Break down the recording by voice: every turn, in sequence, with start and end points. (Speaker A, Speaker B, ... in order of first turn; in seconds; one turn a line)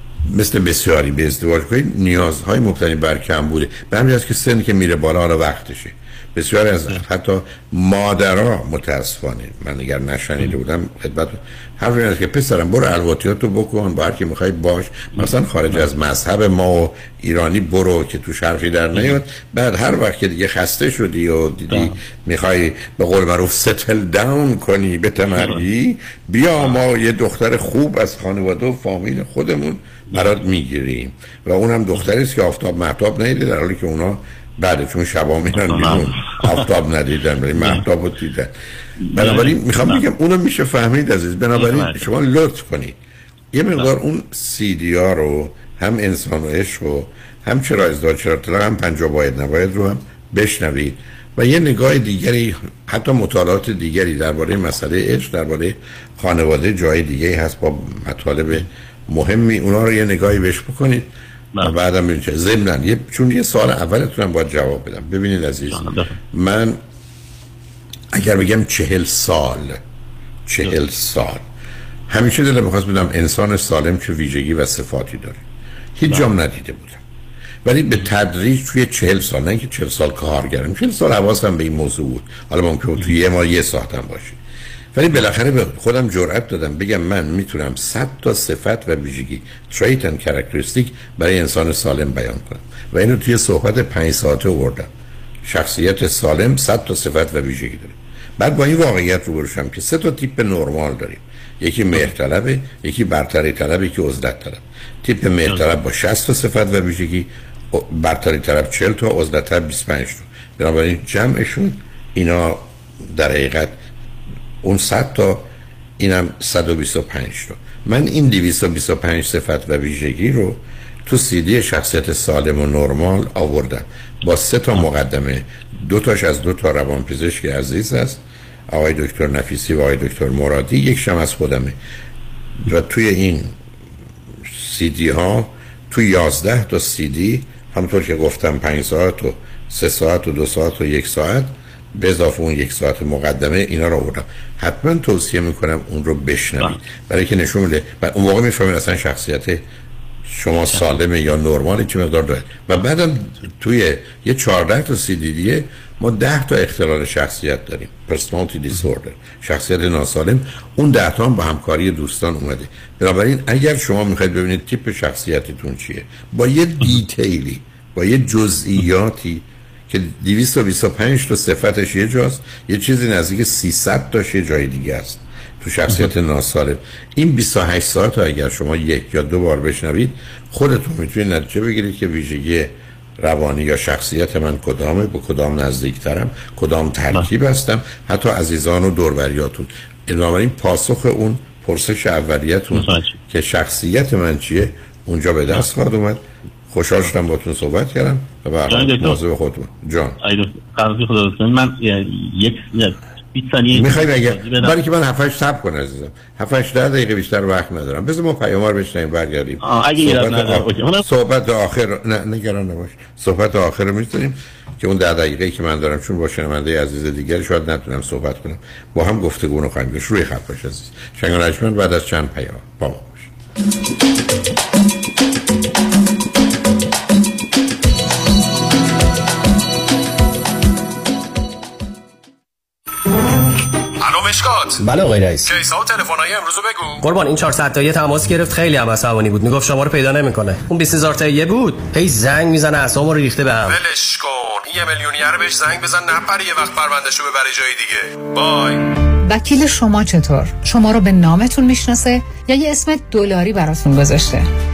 Speaker A: 0.2-38.5
Speaker B: 15.2-15.8
Speaker B: 25.3-25.6
Speaker B: 35.6-36.6
Speaker B: 37.6-37.8
Speaker B: 39.0-40.0
Speaker A: 39.1-43.0
Speaker B: 41.6-42.1
Speaker A: 43.5-61.1
Speaker A: 61.6-66.8
Speaker B: 65.7-66.2
Speaker A: 68.1-69.8
Speaker A: 70.5-71.5
Speaker A: 72.1-75.4
Speaker A: 76.0-77.0
Speaker A: 77.7-84.4
Speaker A: 84.9-94.9
Speaker A: 95.5-113.8
Speaker A: 114.6-115.5
Speaker A: 116.0-131.8
Speaker A: 132.6-133.6
Speaker A: 134.5-149.6
Speaker A: 150.3-200.2
Speaker B: 192.8-193.2
Speaker B: 198.7-199.2
Speaker B: 200.2-204.8
Speaker A: 203.7-223.3
Speaker B: 209.6-211.0
Speaker C: 234.0-234.8
Speaker C: 235.4-237.1
Speaker D: 237.0-243.8
Speaker C: 243.6-248.8
Speaker E: 249.2-254.5